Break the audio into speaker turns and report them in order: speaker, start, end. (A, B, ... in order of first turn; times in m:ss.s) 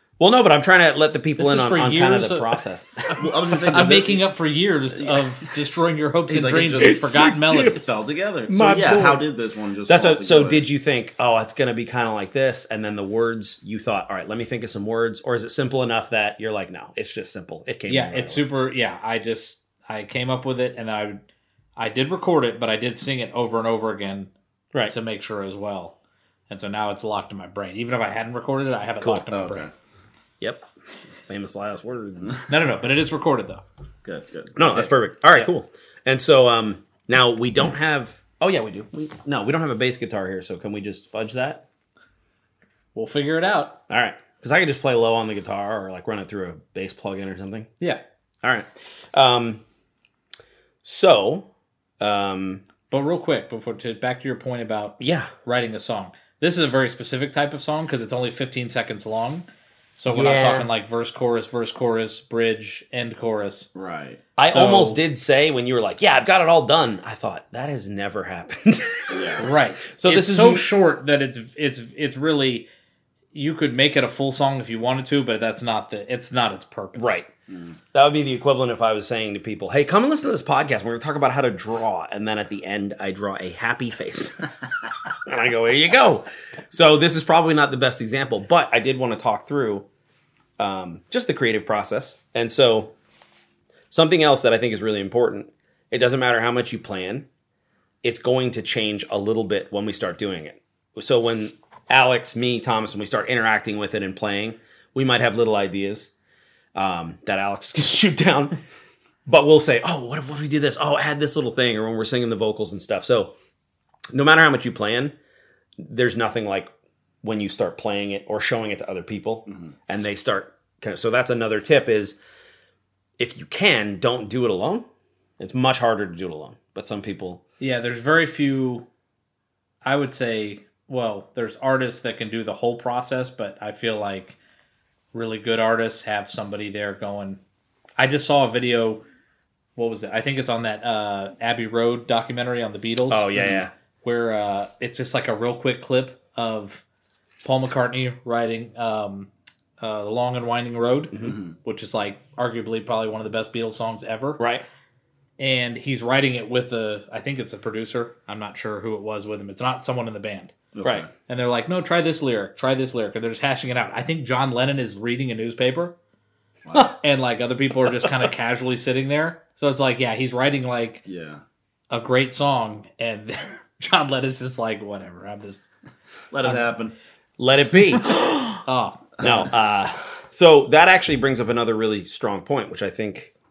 0:00.2-0:03.2 A
0:01.4-0:02.6 B
0:03.2-0:04.2 C
0:03.5-0:07.9 B
0:04.9-0:05.2 C
0:06.3-0:10.6 C
0:06.8-0:07.8 A
0:08.5-0:09.2 A
0:09.9-0:18.4 A
0:17.9-0:21.2 B
0:21.8-0:24.3 B
0:24.8-0:26.0 B
0:26.5-0:29.7 B
0:29.3-0:29.7 C
0:30.4-0:30.7 A
0:31.2-0:32.4 A
0:32.5-0:33.6 B
0:34.0-0:34.9 C
0:34.6-0:41.6 A
0:42.9-0:43.8 B
0:43.9-0:47.7 A
0:48.4-0:49.6 A
0:50.8-0:51.5 A
0:52.0-0:52.6 A
0:52.9-0:59.4 B
0:55.0-0:55.3 A
1:00.0-1:03.7 B
1:00.1-1:00.7 A
1:03.7-1:04.2 C
1:04.4-1:10.7 A
1:04.4-1:05.0 B
1:09.1-1:09.5 C
1:09.4-1:12.7 B
1:13.3-1:17.2 B
1:17.0-1:17.3 A
1:17.5-1:17.8 C
1:17.9-1:24.4 A
1:25.2-1:29.8 A
1:30.6-1:32.9 A
1:33.9-1:37.3 A
1:38.0-1:46.1 A
1:46.7-1:48.6 A
1:49.3-1:53.3 A
1:54.1-1:55.1 A
1:55.8-1:56.7 A
1:57.2-2:02.2 A
2:03.2-2:04.8 A
2:05.4-2:07.4 A
2:07.6-2:08.8 B
2:09.8-2:14.4 B
2:15.1-2:17.4 B
2:18.0-2:19.0 B
2:19.8-2:26.8 B
2:23.1-2:23.7 A
2:27.4-2:34.4 B
2:31.2-2:31.5 C
2:34.4-2:34.6 A
2:35.4-2:40.5 B
2:40.7-2:41.1 C
2:41.3-2:45.9 B
2:46.6-2:46.9 C
2:47.0-2:51.0 B
2:51.0-2:51.4 C
2:51.9-2:55.6 B
2:56.3-2:56.9 C
2:57.4-2:58.6 A
2:57.9-2:59.2 B
2:59.2-3:03.3 A